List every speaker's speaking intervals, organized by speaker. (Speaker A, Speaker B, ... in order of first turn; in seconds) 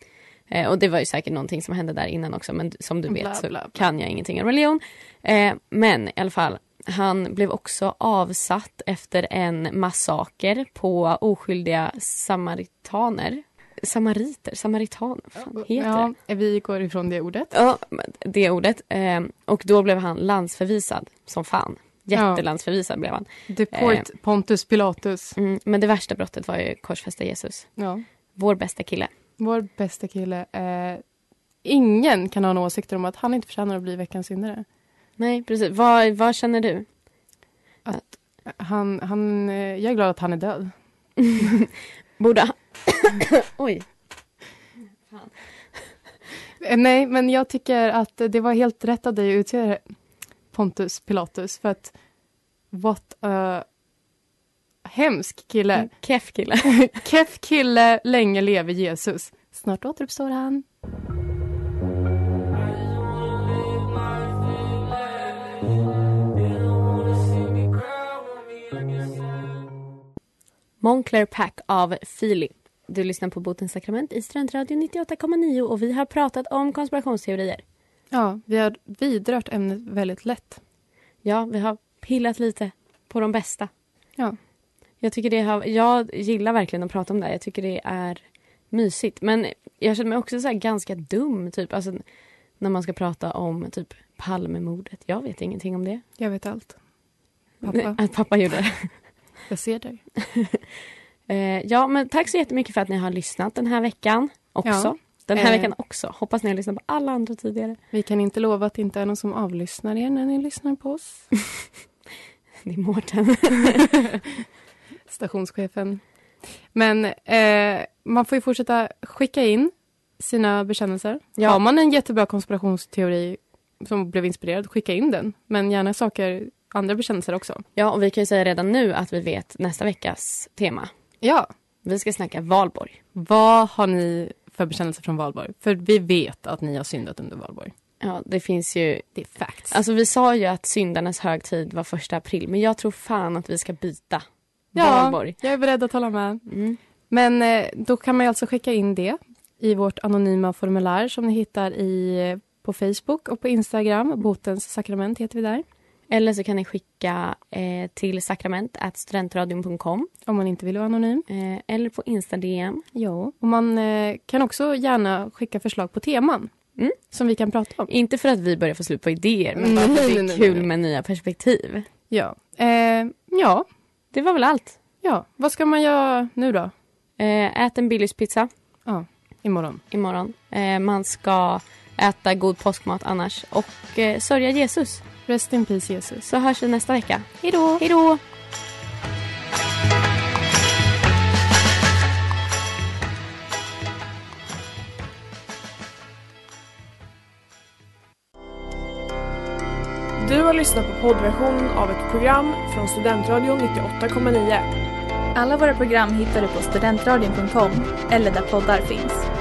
Speaker A: 0.5-16.1, 17.5-24.1, 25.4-27.7, 28.4-29.1, 35.2-36.9, 41.2-43.9, 55.8-56.8, 70.8-77.6, 81.2-83.7, 85.0-92.0, 92.6-96.0, 97.7-98.9, 100.2-100.6, 101.3-107.8, 112.7-113.9, 127.8-130.9, 131.8-133.0, 138.0-139.1, 139.7-144.2, 144.8-145.4, 146.5-146.8, 156.1-160.1, 161.3-162.8, 167.9-171.9, 174.1-174.8, 177.2-178.5, 179.9-185.0, 186.2-188.2
Speaker B: 3.1-3.9, 15.5-17.5, 22.1-22.4, 23.5-25.4, 27.8-28.0, 29.4-31.0, 31.6-34.6, 37.9-40.7, 46.6-49.8, 50.5-51.9, 52.7-53.6, 54.8-55.9, 56.6-60.6, 78.1-80.6, 96.2-96.8, 97.6-98.0, 99.5-100.0, 104.7-105.7, 107.9-111.3, 114.0-114.4, 115.1-116.0, 116.7-127.6, 131.2-131.5, 133.2-137.7, 139.2-139.8, 144.8-146.4, 147.1-155.7, 160.3-161.3, 162.9-166.5, 167.1-167.9, 169.6-170.7, 172.1-173.7, 175.0-176.7, 178.9-179.8, 185.3-186.3, 187.4-187.8
Speaker C: 200.2-204.7
Speaker D: 205.3-209.3